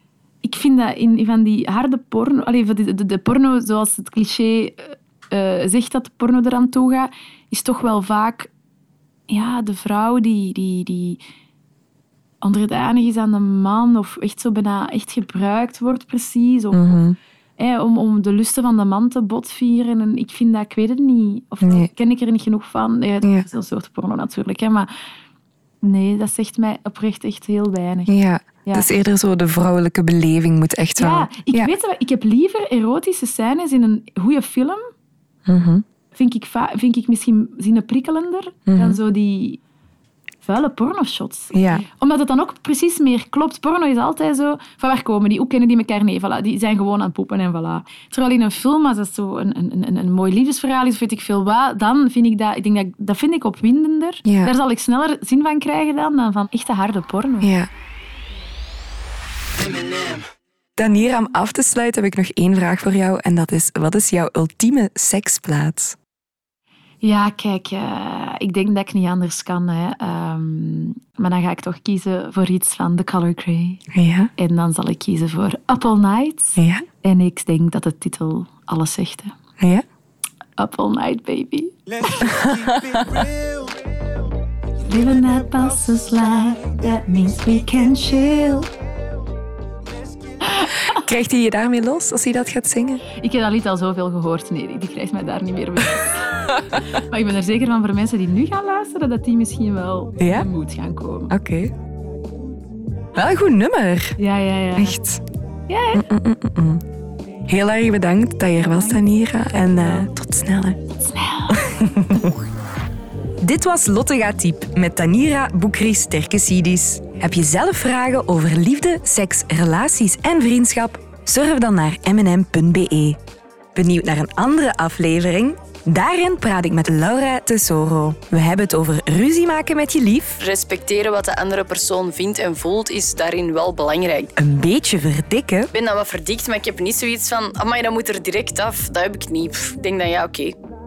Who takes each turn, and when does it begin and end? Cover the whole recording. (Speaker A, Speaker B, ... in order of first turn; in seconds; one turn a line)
Speaker A: 0.4-8.5
Speaker A: 9.3-11.2
Speaker A: 12.4-17.0
Speaker B: 16.7-17.1
Speaker A: 17.6-24.9
Speaker B: 21.6-21.9
Speaker B: 23.2-23.5
Speaker A: 25.8-28.1
Speaker B: 28.1-31.7
Speaker A: 28.6-28.9
Speaker A: 31.0-34.9
Speaker B: 35.5-35.8
Speaker A: 36.1-39.6
Speaker B: 38.7-39.0
Speaker A: 40.4-57.5
Speaker B: 41.5-41.8
Speaker B: 54.2-54.5
Speaker B: 57.4-57.7
Speaker B: 60.8-66.0
Speaker A: 67.0-73.8
Speaker B: 73.9-74.3
Speaker A: 74.4-79.3
Speaker B: 76.6-76.8
Speaker B: 79.6-79.8
Speaker A: 80.6-82.5
Speaker B: 82.2-83.3
Speaker A: 84.8-88.7
Speaker B: 90.9-93.0
Speaker A: 93.1-101.3
Speaker B: 100.2-100.5
Speaker B: 101.3-101.7
Speaker B: 103.1-104.2
Speaker A: 104.2-104.9
Speaker B: 104.8-105.2
Speaker A: 105.7-106.0
Speaker B: 105.9-106.8
Speaker B: 107.5-110.8
Speaker A: 109.6-110.1
Speaker A: 111.0-111.7
Speaker B: 111.5-112.3
Speaker B: 113.4-123.2
Speaker B: 123.7-130.4
Speaker C: 130.4-134.3
Speaker B: 134.3-135.7
Speaker C: 135.7-140.6